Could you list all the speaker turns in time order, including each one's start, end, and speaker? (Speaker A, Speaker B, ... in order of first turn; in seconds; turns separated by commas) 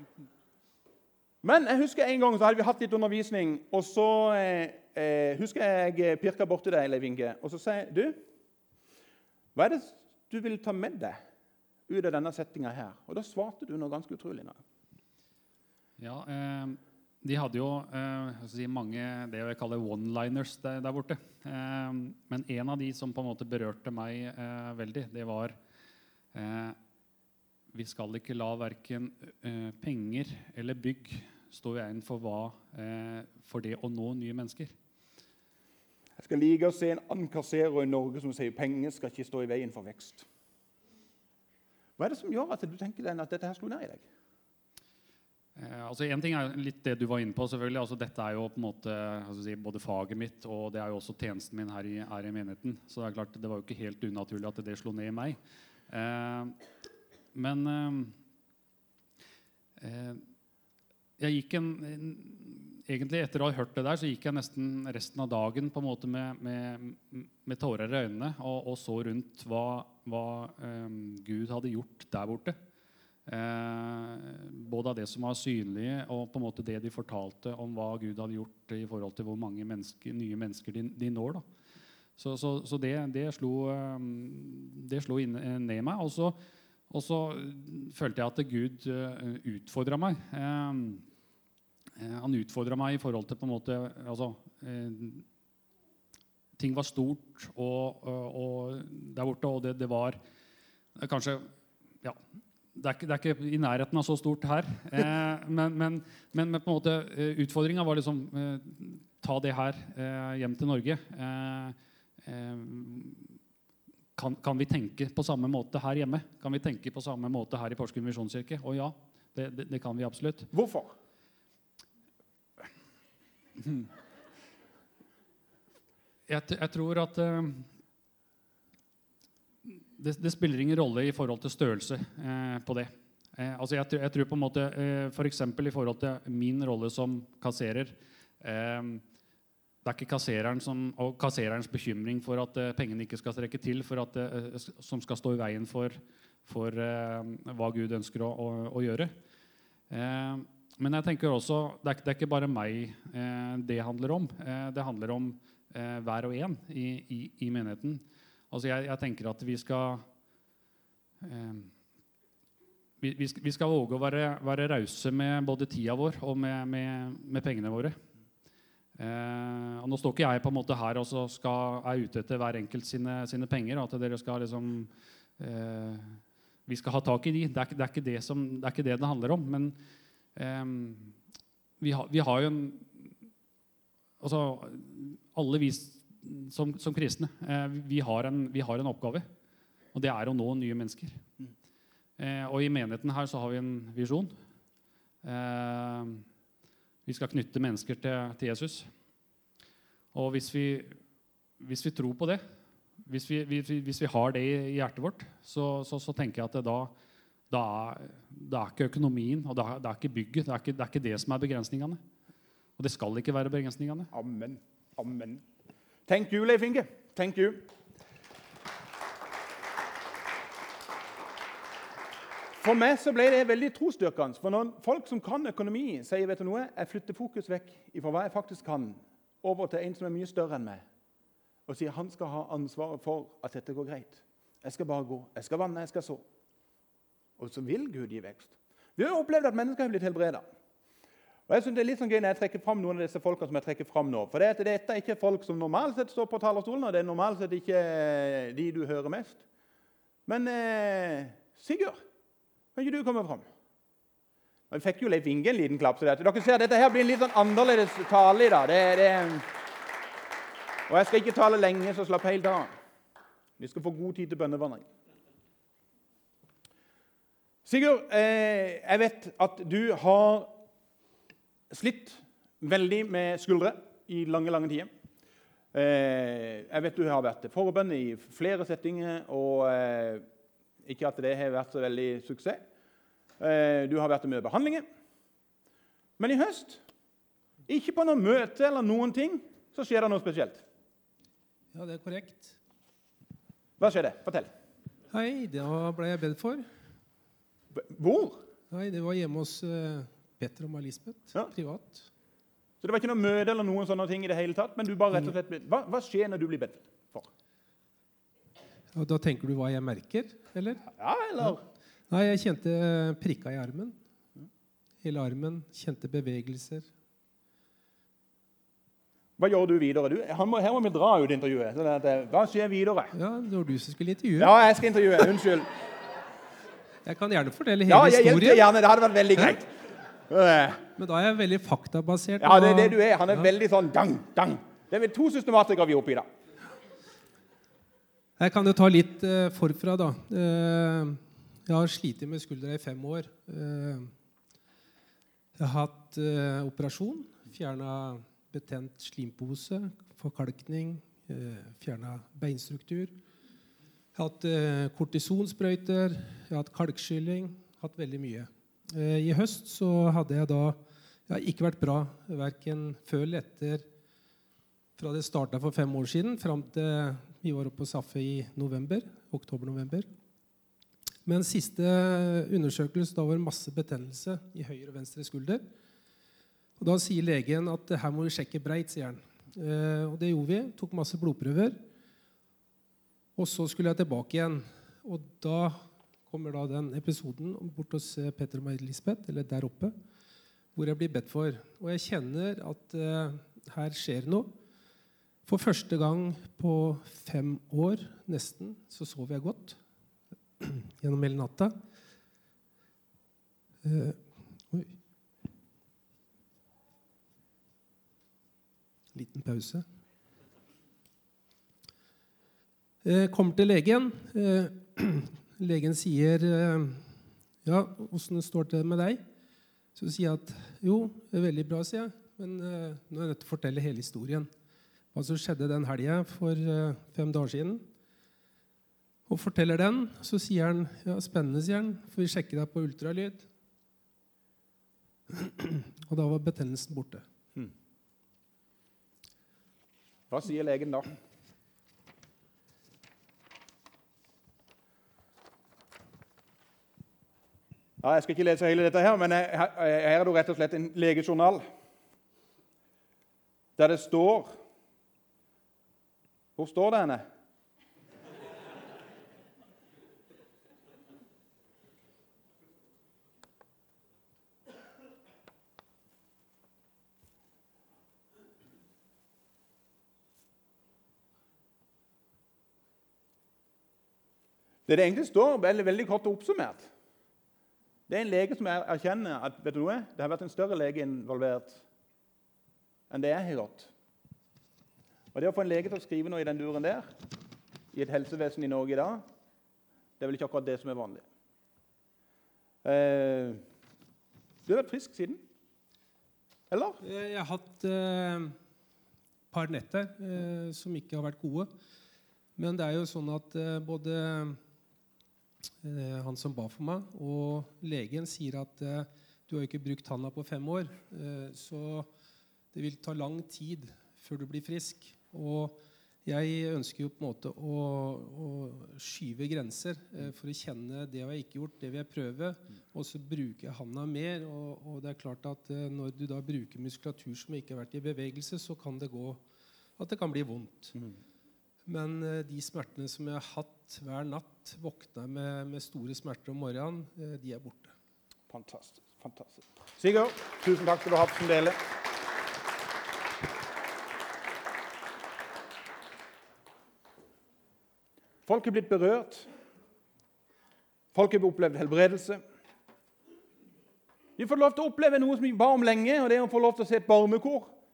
Speaker A: 1.4-8.2, Speaker A: 9.6-11.2, Speaker A: 11.9-14.6, Speaker B: 16.0-25.6, Speaker B: 26.3-26.8, Speaker B: 27.7-34.7, Speaker A: 36.2-40.3, Speaker A: 42.0-44.0, Speaker B: 45.6-55.4, Speaker B: 55.9-56.6, Speaker B: 57.3-58.2, Speaker B: 59.8-60.2, Speaker B: 61.2-72.6, Speaker B: 73.3-81.4, Speaker B: 82.2-86.4, Speaker B: 86.9-91.0, Speaker B: 92.0-95.2, Speaker B: 96.6-100.2, Speaker B: 101.0-101.5, Speaker B: 102.7-113.3, Speaker B: 114.2-120.5, Speaker A: 120.5-120.9, Speaker B: 126.3-127.7, Speaker B: 129.6-139.0, Speaker B: 139.8-149.1, Speaker B: 149.9-160.1, Speaker B: 161.2-161.7, Speaker B: 163.0-168.0, Speaker B: 168.9-179.8, Speaker B: 180.4-181.2, Speaker B: 181.8-183.1, Speaker B: 184.2-189.3, Speaker B: 189.9-191.2, Speaker B: 192.2-194.3, Speaker B: 195.2-196.2, Speaker B: 197.1-198.9, Speaker B: 200.1-201.0, Speaker B: 201.6-202.4, Speaker B: 203.1-206.9, Speaker B: 207.5-212.0, Speaker B: 212.8-214.1, Speaker A: 214.1-215.4, Speaker A: 216.1-217.7, Speaker A: 222.6-230.8, Speaker A: 231.7-236.2, Speaker A: 237.4-240.4, Speaker A: 241.5-249.4, Speaker A: 250.3-252.0, Speaker A: 252.8-253.4, Speaker A: 254.7-259.5, Speaker A: 260.9-262.7, Speaker A: 263.6-264.9, Speaker A: 267.6-270.6, Speaker A: 271.7-274.9, Speaker A: 275.7-280.2, Speaker A: 280.8-282.6, Speaker A: 283.4-284.8, Speaker A: 286.2-286.8, Speaker A: 287.7-290.6, Speaker C: 291.7-292.6, Speaker A: 293.8-294.5, Speaker C: 295.1-296.6, Speaker A: 297.8-298.4, Speaker C: 298.7-302.1, Speaker A: 302.8-307.3, Speaker C: 308.9-310.9, Speaker A: 310.9-311.6, Speaker C: 312.1-314.0, Speaker C: 315.0-316.9, Speaker A: 319.4-323.1, Speaker C: 323.1-324.6, Speaker A: 324.4-325.7, Speaker C: 327.0-328.7, Speaker A: 327.9-329.7, Speaker A: 330.3-330.8, Speaker C: 331.0-333.5, Speaker A: 332.4-336.3, Speaker C: 338.4-344.1, Speaker C: 345.6-353.1, Speaker C: 354.1-363.9, Speaker C: 365.0-370.1, Speaker C: 371.3-375.6, Speaker C: 376.8-381.8, Speaker C: 383.4-389.9, Speaker C: 390.8-394.5, Speaker C: 395.5-399.8, Speaker C: 400.6-401.8, Speaker C: 403.8-404.9, Speaker C: 409.1-409.9, Speaker C: 413.0-417.1, Speaker C: 417.6-419.2, Speaker C: 419.9-424.5, Speaker C: 425.1-427.8, Speaker C: 429.3-433.5, Speaker C: 435.3-437.2, Speaker A: 440.3-441.2, Speaker A: 448.0-451.6, Speaker A: 453.8-454.5, Speaker A: 456.6-457.2, Speaker A: 474.9-476.9, Speaker A: 478.1-481.8, Speaker A: 483.1-483.9, Speaker A: 485.3-487.1, Speaker A: 487.9-489.2, Speaker A: 490.2-491.2, Speaker A: 492.8-493.6, Speaker A: 494.7-495.4, Speaker A: 496.7-497.0, Speaker C: 497.0-498.6, Speaker C: 499.5-501.7, Speaker C: 502.6-504.6, Speaker C: 505.8-512.1, Speaker C: 512.7-529.4, Speaker C: 530.0-531.0, Speaker C: 531.9-537.9, Speaker A: 538.5-541.8, Speaker A: 548.5-549.5, Speaker A: 551.1-552.4, Speaker A: 554.4-557.7